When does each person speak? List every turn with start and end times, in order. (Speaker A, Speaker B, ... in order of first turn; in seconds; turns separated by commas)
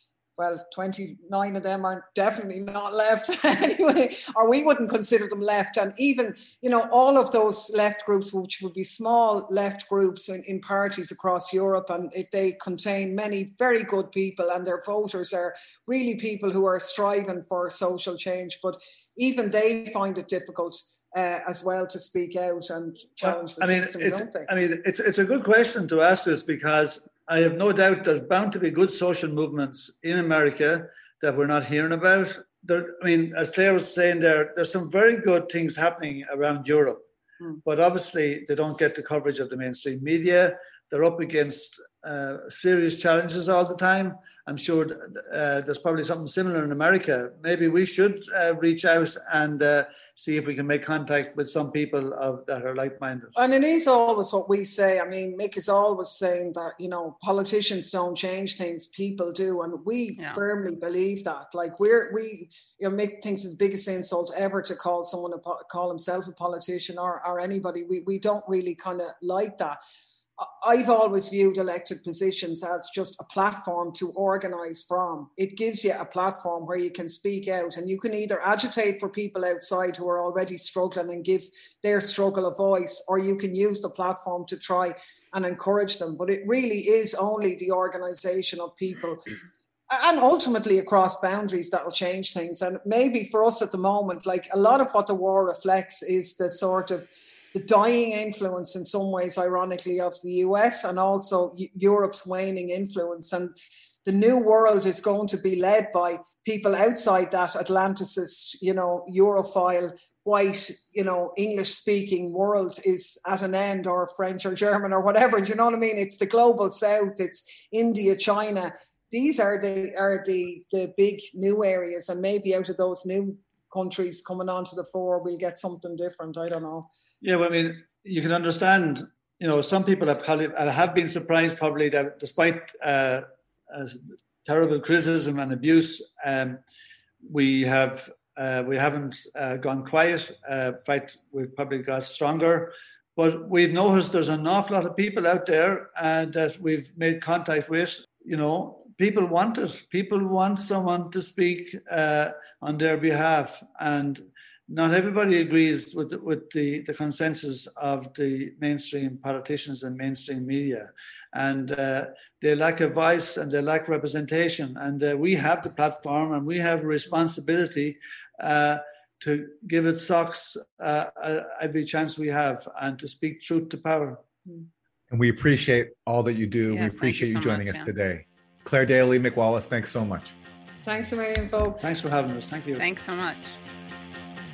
Speaker A: 0.4-24.5, Speaker B: 23.2-37.0, Speaker B: 37.6-53.3, Speaker A: 53.4-69.8, Speaker A: 70.4-89.3, Speaker A: 89.9-103.5, Speaker A: 104.0-126.9, Speaker B: 127.2-136.6, Speaker B: 137.2-174.2, Speaker C: 175.1-180.3, Speaker D: 176.7-177.9, Speaker A: 180.8-181.9, Speaker B: 181.8-182.8, Speaker D: 182.8-183.5